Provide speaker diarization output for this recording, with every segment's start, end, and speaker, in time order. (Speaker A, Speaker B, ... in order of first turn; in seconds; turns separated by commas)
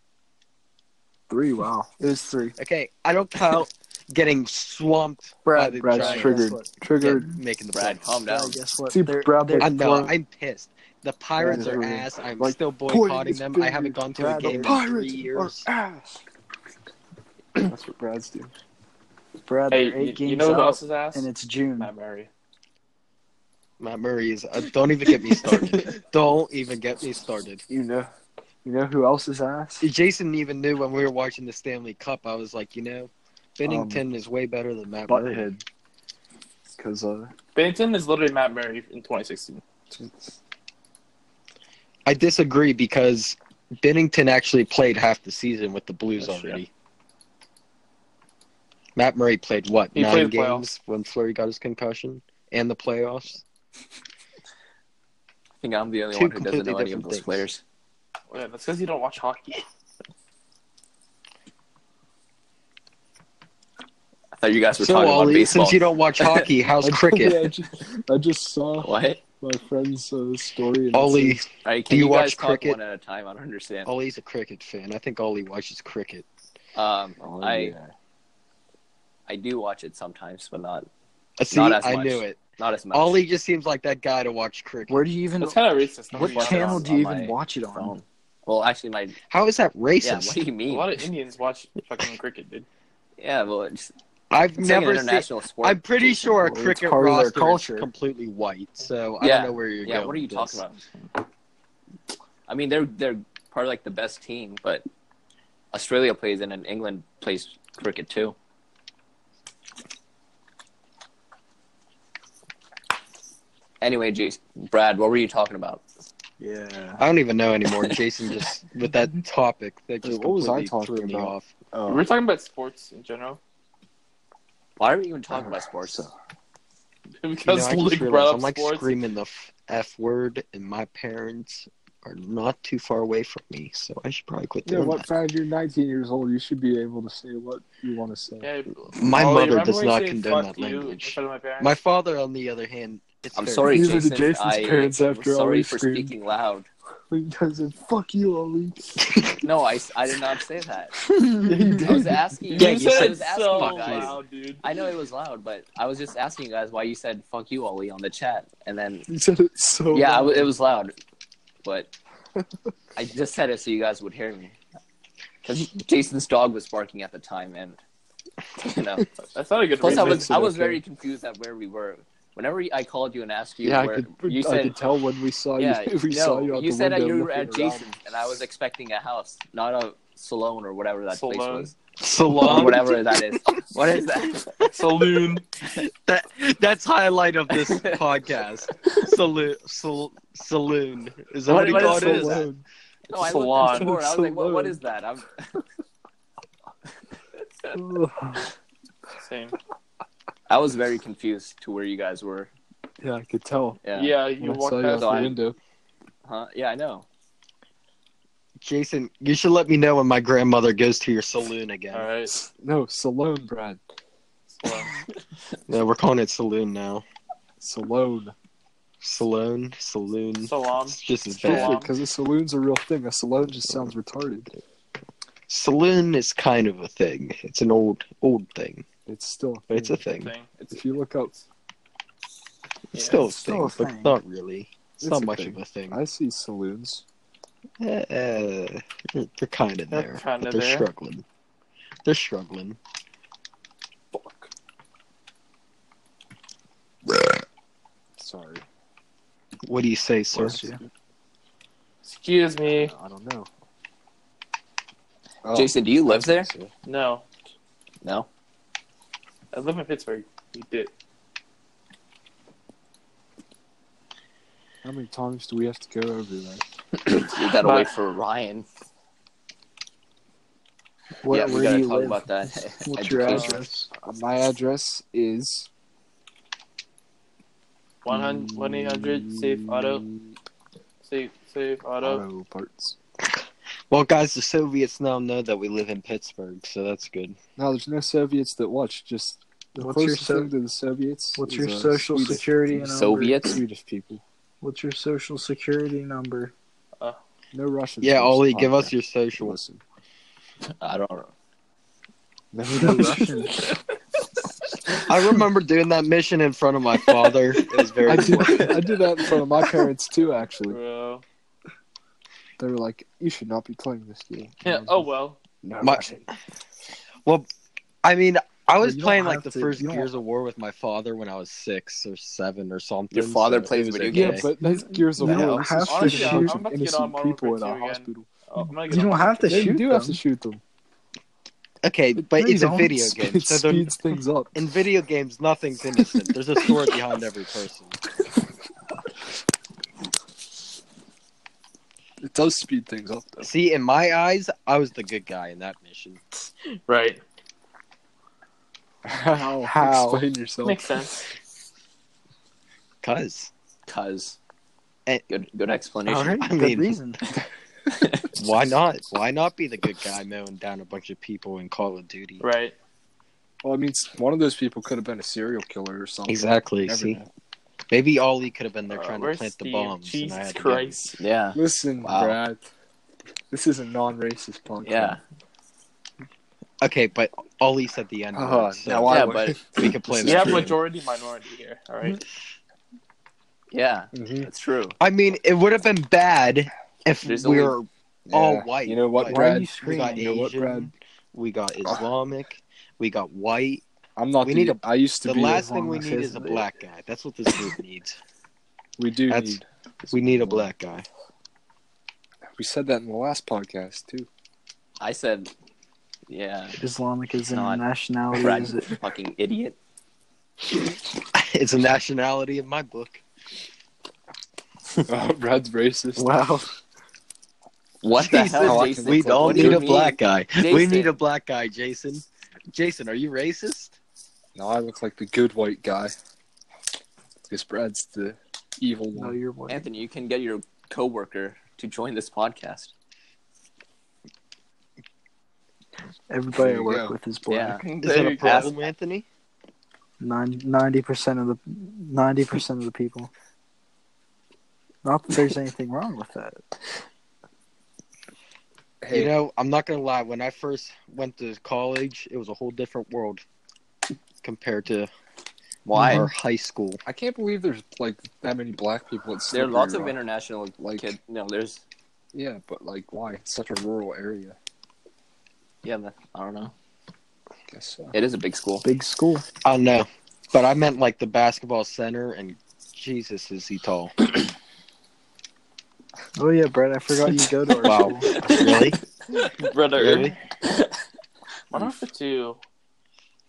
Speaker A: 1.3-1.9, Speaker B: 2.0-2.5, Speaker C: 2.6-6.5, Speaker B: 5.4-7.4, Speaker A: 5.8-7.3, Speaker C: 7.0-8.3, Speaker D: 7.7-8.6, Speaker B: 8.2-9.7, Speaker A: 8.9-10.1, Speaker C: 9.6-15.7, Speaker A: 11.4-16.2, Speaker B: 14.1-14.8, Speaker A: 17.6-18.5, Speaker B: 19.4-21.9, Speaker E: 19.7-21.3, Speaker E: 21.8-22.3, Speaker C: 23.8-27.6, Speaker A: 27.7-28.1, Speaker A: 28.6-29.9, Speaker C: 29.8-35.5, Speaker A: 33.6-34.0, Speaker A: 35.1-35.6, Speaker A: 36.7-37.3, Speaker E: 37.5-39.6, Speaker A: 39.9-40.4, Speaker C: 42.1-46.7, Speaker E: 46.2-46.6, Speaker C: 49.0-53.4, Speaker E: 49.9-50.6, Speaker D: 55.6-57.6, Speaker C: 56.1-57.4, Speaker E: 58.3-59.6, Speaker D: 64.4-66.5, Speaker C: 64.7-67.5, Speaker A: 66.8-71.4, Speaker D: 68.8-69.2, Speaker C: 70.9-72.8, Speaker D: 71.6-73.9, Speaker C: 73.9-76.2, Speaker D: 76.8-77.8, Speaker A: 77.2-77.9, Speaker D: 79.3-80.9, Speaker C: 81.4-82.4, Speaker D: 81.5-83.2, Speaker C: 82.9-85.1, Speaker B: 84.9-85.6, Speaker E: 85.4-86.9, Speaker B: 86.1-87.9, Speaker D: 86.2-89.2, Speaker C: 89.3-90.4, Speaker D: 90.0-90.9, Speaker E: 90.7-92.7, Speaker D: 93.2-93.9, Speaker C: 94.3-100.6, Speaker D: 94.6-96.3, Speaker B: 96.4-97.9, Speaker D: 99.2-100.8, Speaker D: 102.5-104.9, Speaker D: 105.7-108.3, Speaker D: 113.8-115.8, Speaker B: 116.4-117.0, Speaker C: 117.0-121.5, Speaker A: 120.0-122.0, Speaker E: 121.9-123.4, Speaker D: 124.8-126.1, Speaker A: 125.3-126.1, Speaker E: 127.2-128.9, Speaker C: 127.4-135.0, Speaker A: 134.6-138.5, Speaker E: 138.4-141.7, Speaker C: 138.9-144.0, Speaker D: 143.3-146.7, Speaker A: 143.7-146.1, Speaker A: 147.1-149.0, Speaker D: 149.4-151.0, Speaker B: 151.2-151.6, Speaker A: 151.4-152.2, Speaker D: 151.8-159.1, Speaker E: 152.5-154.6, Speaker C: 152.5-154.2, Speaker A: 159.1-160.5, Speaker D: 159.9-160.9, Speaker D: 161.6-161.9, Speaker D: 162.9-164.5, Speaker D: 165.4-167.8, Speaker D: 168.6-169.1, Speaker E: 169.3-170.3, Speaker A: 169.8-170.8, Speaker D: 169.8-174.8, Speaker A: 173.6-177.9, Speaker D: 175.6-181.7, Speaker E: 181.1-181.7, Speaker C: 182.0-183.0, Speaker D: 182.4-184.5, Speaker C: 184.6-192.5, Speaker E: 184.7-185.4, Speaker D: 187.5-188.0, Speaker D: 191.4-192.5, Speaker A: 191.5-192.6, Speaker D: 193.1-195.5, Speaker E: 193.1-193.9, Speaker A: 193.5-194.8, Speaker A: 197.7-198.4, Speaker E: 199.2-199.6, Speaker D: 200.5-202.5, Speaker A: 203.0-203.8, Speaker D: 203.8-204.2, Speaker E: 203.9-205.4, Speaker A: 204.4-205.6, Speaker D: 204.9-205.4, Speaker D: 206.2-207.1, Speaker C: 208.6-212.1, Speaker E: 211.9-212.4, Speaker A: 212.5-213.8, Speaker E: 214.6-214.9, Speaker C: 215.7-217.0, Speaker A: 217.6-218.3, Speaker C: 219.0-221.8, Speaker E: 220.4-221.9, Speaker A: 221.4-224.5, Speaker C: 225.5-228.9, Speaker A: 229.1-231.3, Speaker C: 229.7-230.3, Speaker E: 230.1-231.4, Speaker E: 232.9-233.3, Speaker C: 232.9-236.0, Speaker B: 233.2-234.2, Speaker A: 235.0-237.0, Speaker C: 237.8-241.2, Speaker E: 239.9-240.9, Speaker C: 242.0-242.8, Speaker A: 244.1-244.5, Speaker A: 248.2-248.6, Speaker C: 249.7-250.8, Speaker B: 250.3-250.8, Speaker E: 252.0-252.9, Speaker A: 252.7-253.5, Speaker A: 255.4-256.7, Speaker D: 255.5-256.5, Speaker E: 256.9-257.2, Speaker D: 258.0-258.3, Speaker E: 259.5-260.9, Speaker A: 264.8-266.6, Speaker D: 267.2-268.7, Speaker E: 267.6-267.9, Speaker B: 271.2-273.9, Speaker D: 271.3-273.6, Speaker E: 273.2-273.6, Speaker A: 273.2-275.7, Speaker E: 278.0-280.1, Speaker A: 278.1-280.4, Speaker E: 281.0-282.2, Speaker A: 282.0-283.0, Speaker C: 283.9-287.4, Speaker A: 287.6-294.2, Speaker B: 289.8-290.5, Speaker B: 291.4-293.4, Speaker D: 292.8-293.6, Speaker B: 294.6-296.5, Speaker A: 297.5-299.8, Speaker C: 298.0-299.6, Speaker D: 300.8-301.3, Speaker A: 302.5-303.5, Speaker B: 302.7-303.6, Speaker C: 304.9-308.8, Speaker A: 308.0-310.8, Speaker D: 308.1-308.8, Speaker E: 310.6-311.2, Speaker A: 312.6-315.1, Speaker E: 314.6-315.4, Speaker A: 315.6-316.3, Speaker C: 315.8-316.1, Speaker C: 318.0-324.5, Speaker B: 318.8-320.1, Speaker D: 323.1-324.5, Speaker A: 324.1-328.3, Speaker B: 324.6-326.6, Speaker E: 325.8-329.5, Speaker B: 328.9-330.2, Speaker A: 329.4-330.6, Speaker C: 331.8-333.9, Speaker A: 332.2-334.5, Speaker B: 332.3-333.1, Speaker C: 334.5-338.0, Speaker A: 342.2-343.5, Speaker C: 343.4-346.2, Speaker E: 346.9-347.2, Speaker A: 349.0-351.1, Speaker C: 349.6-350.2, Speaker E: 350.6-351.3, Speaker C: 353.0-353.5, Speaker D: 353.9-354.4, Speaker D: 355.3-356.5, Speaker C: 356.0-357.0, Speaker B: 356.4-357.2, Speaker D: 357.9-358.2, Speaker C: 358.4-362.4, Speaker E: 362.4-362.7, Speaker A: 363.6-367.3, Speaker C: 366.3-367.2, Speaker C: 367.9-371.0, Speaker E: 368.9-371.2, Speaker D: 371.2-372.3, Speaker A: 371.5-372.7, Speaker A: 373.5-375.2, Speaker D: 374.8-375.2, Speaker C: 376.8-380.8, Speaker A: 378.3-380.8, Speaker D: 379.1-379.6, Speaker E: 380.2-382.2, Speaker D: 383.7-385.0, Speaker A: 384.1-384.5, Speaker C: 385.0-393.8, Speaker D: 387.2-387.8, Speaker A: 388.3-390.9, Speaker B: 389.2-390.4, Speaker A: 394.2-395.7, Speaker C: 394.4-398.2, Speaker B: 395.5-396.7, Speaker A: 399.0-400.7, Speaker C: 399.3-401.0, Speaker A: 402.6-404.3, Speaker D: 405.0-405.5, Speaker D: 406.3-406.8, Speaker B: 406.8-409.0, Speaker D: 407.5-409.8, Speaker C: 411.4-413.2, Speaker A: 415.1-416.3, Speaker C: 416.2-416.7, Speaker D: 418.0-421.1, Speaker C: 418.1-423.9, Speaker A: 418.5-419.9, Speaker A: 424.5-426.1, Speaker A: 427.5-429.4, Speaker B: 429.1-429.9, Speaker D: 429.7-432.9, Speaker B: 436.3-437.8, Speaker A: 436.5-437.1, Speaker D: 437.5-438.8, Speaker E: 437.8-438.8, Speaker C: 438.0-439.2, Speaker B: 440.2-443.3, Speaker B: 445.0-446.8, Speaker A: 449.0-449.4, Speaker C: 449.1-453.4, Speaker C: 454.4-455.1, Speaker D: 455.9-456.3, Speaker C: 455.9-457.0, Speaker A: 457.0-460.2, Speaker D: 459.5-461.8, Speaker A: 460.8-461.1, Speaker A: 462.3-464.6, Speaker D: 465.8-466.7, Speaker A: 467.7-468.1, Speaker D: 468.1-468.9, Speaker B: 468.8-469.4, Speaker C: 469.6-474.1, Speaker B: 476.4-478.4, Speaker C: 477.8-479.0, Speaker D: 478.4-478.9, Speaker E: 479.4-480.4, Speaker D: 479.4-480.3, Speaker C: 479.9-480.3, Speaker E: 481.7-482.6